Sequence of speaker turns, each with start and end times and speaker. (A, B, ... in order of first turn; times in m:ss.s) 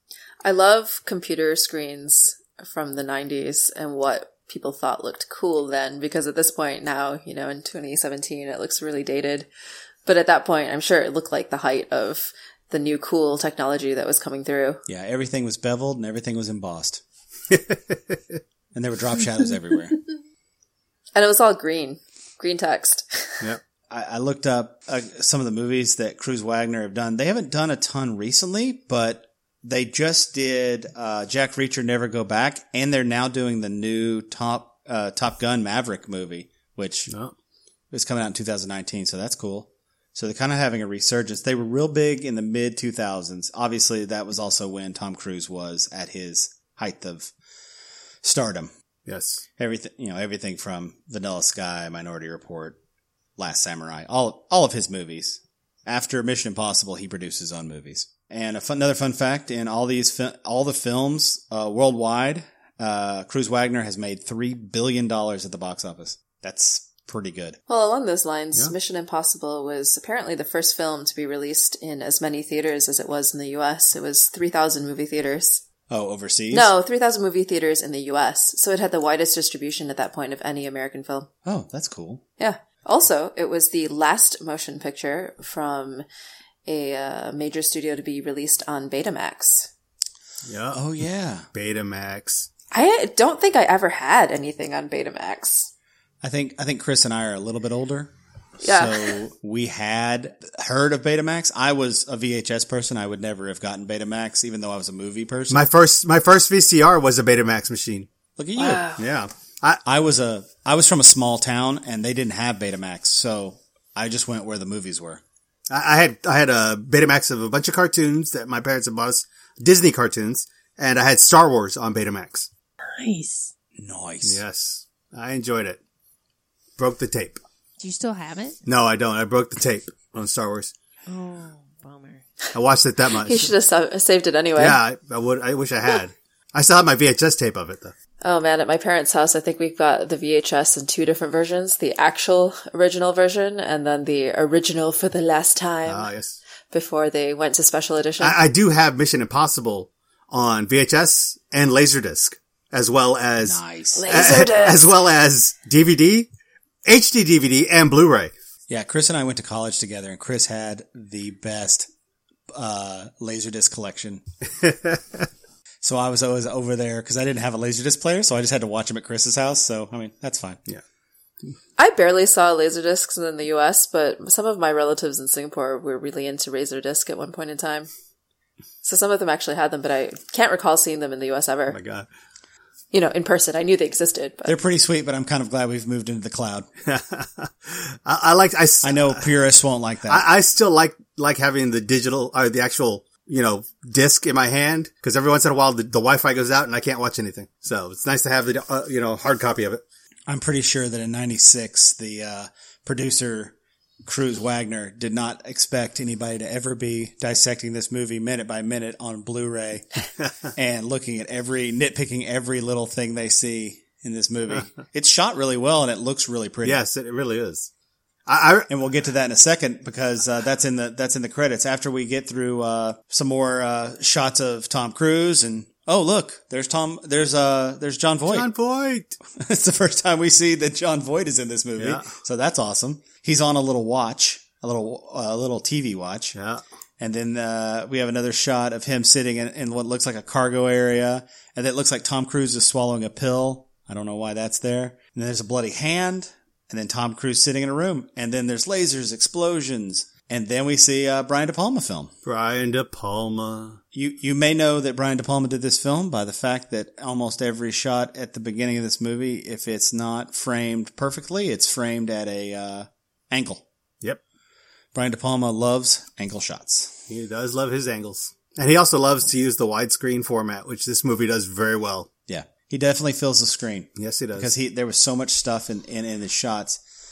0:00.4-0:09.5 A
0:10.0-0:14.8 A
0:14.9-0:17.0 B
0:17.5-0:18.2 C
0:18.7-0:20.0 B
0:21.1-0:23.4 A
0:23.9-0:37.1 B
0:37.1-0:37.3 C
0:37.9-0:47.3 B
0:48.2-0:48.7 B
0:49.0-0:49.4 C
0:49.6-0:52.8 B
0:53.4-1:07.6 B
1:07.7-1:15.6 A
1:15.9-1:16.7 B
1:16.5-1:21.3 A
1:21.4-1:22.2 B
1:22.4-1:26.0 A
1:26.6-1:29.7 A
1:30.4-1:30.8 C
1:30.7-1:31.5 B
1:31.5-1:32.5 C
1:32.7-1:35.7 A
1:36.2-1:45.6 B
1:38.6-1:39.2 A
1:45.5-1:48.1 C
1:48.4-1:48.8 B
1:48.6-1:49.0 A
1:48.8-1:49.8 C
1:49.8-1:55.2 B
1:55.7-2:02.5 C
2:03.0-2:03.5 D
2:03.8-2:04.4 B
2:04.2-2:05.8 C
2:06.8-2:07.4 C
2:07.8-2:08.6 D
2:08.6-2:10.7 C
2:11.1-2:12.2 D
2:12.5-2:13.5 C
2:13.2-2:14.8 A
2:14.6-2:17.9 C
2:18.2-2:26.1 A
2:25.8-2:26.4 C
2:26.7-2:28.4 A
2:28.2-2:36.3 C
2:33.4-2:34.1 B
2:34.0-2:34.9 A
2:36.8-2:38.3 C
2:38.7-2:41.9 B
2:42.5-2:44.2 B
2:44.6-2:45.2 C
2:45.8-2:50.6 B
2:51.8-2:57.9 A
2:58.8-3:01.8 A
3:01.7-3:02.1 C
3:02.9-3:04.6 A
3:04.4-3:06.7 B
3:06.8-3:09.3 C
3:08.8-3:10.2 B
3:10.0-3:19.8 C
3:20.3-3:23.5 B
3:24.0-3:36.8 B
3:36.6-3:37.7 C
3:38.2-3:38.7 C
3:38.7-3:48.5 B
3:48.3-3:49.2 C
3:49.3-3:56.4 B
3:51.8-3:52.1 C
3:56.3-3:56.6 C
3:57.0-4:12.1 B
4:12.2-4:13.8 C
4:13.9-4:23.6 B
4:24.9-4:27.0 B
4:27.1-4:32.1 C
4:32.3-4:36.8 B
4:34.0-4:34.5 C